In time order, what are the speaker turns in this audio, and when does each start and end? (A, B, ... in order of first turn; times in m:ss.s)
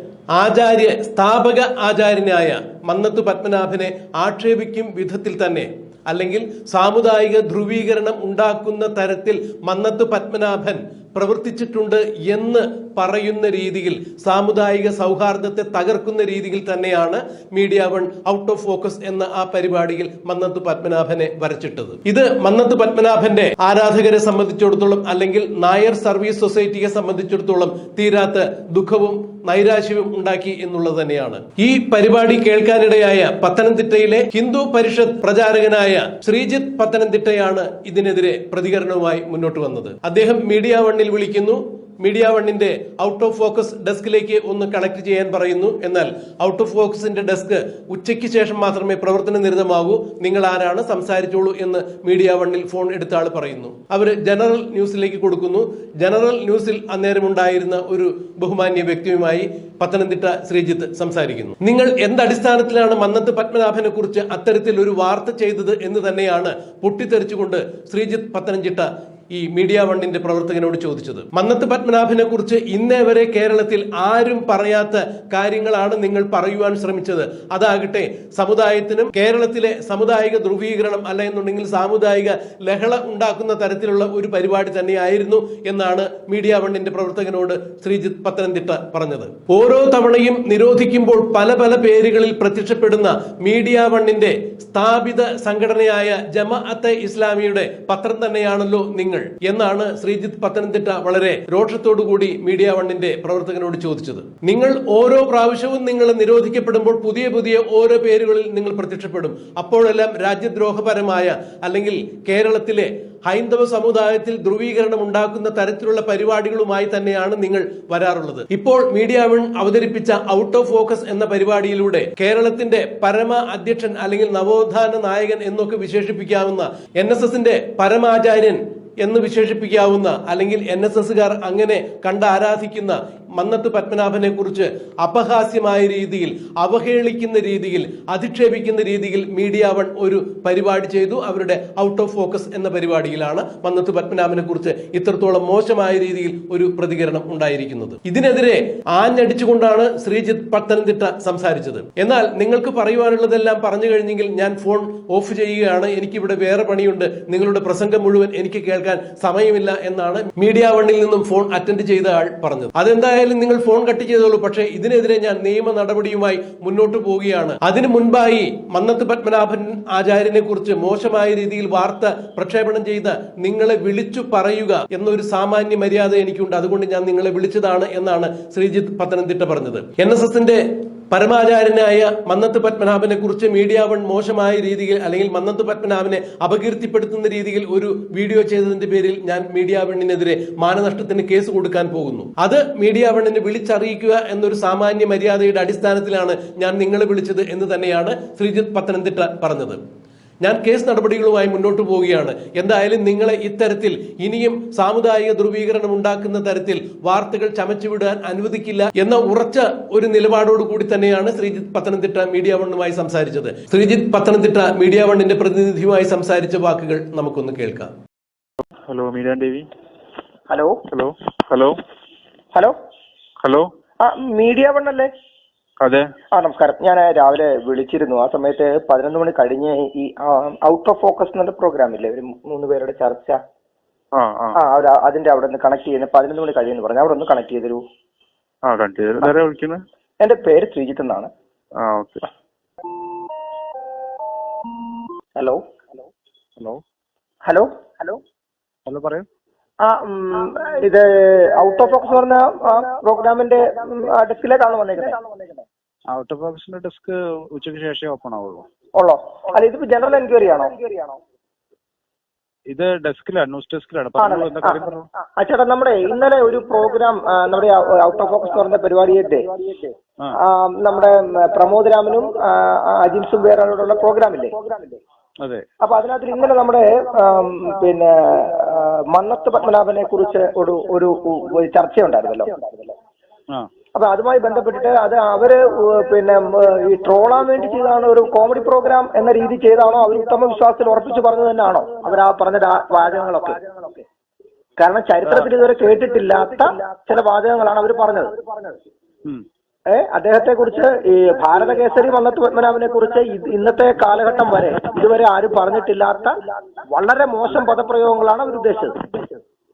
0:00.4-3:19.8 A
3:20.4-3:37.9 A
3:38.9-3:39.6 B
3:40.5-3:40.8 C
3:40.9-3:41.8 B
3:44.0-3:45.1 C
3:46.4-3:53.4 C
3:54.2-3:54.5 B
3:54.6-3:57.8 C
3:58.7-3:59.8 B
4:00.2-4:01.3 C
4:01.8-4:02.2 B
4:05.4-4:05.6 C
4:07.4-4:08.2 C
4:08.9-4:09.3 B
4:09.8-4:15.2 C
4:16.1-4:18.7 B
4:19.0-4:20.7 C
4:22.7-4:25.1 B
4:24.2-4:24.8 C
4:25.4-4:29.5 C
4:30.4-4:34.5 C
4:35.8-4:42.5 C
4:44.0-4:53.6 C
4:54.8-4:58.4 C
4:59.9-5:06.4 C
5:06.9-5:09.4 C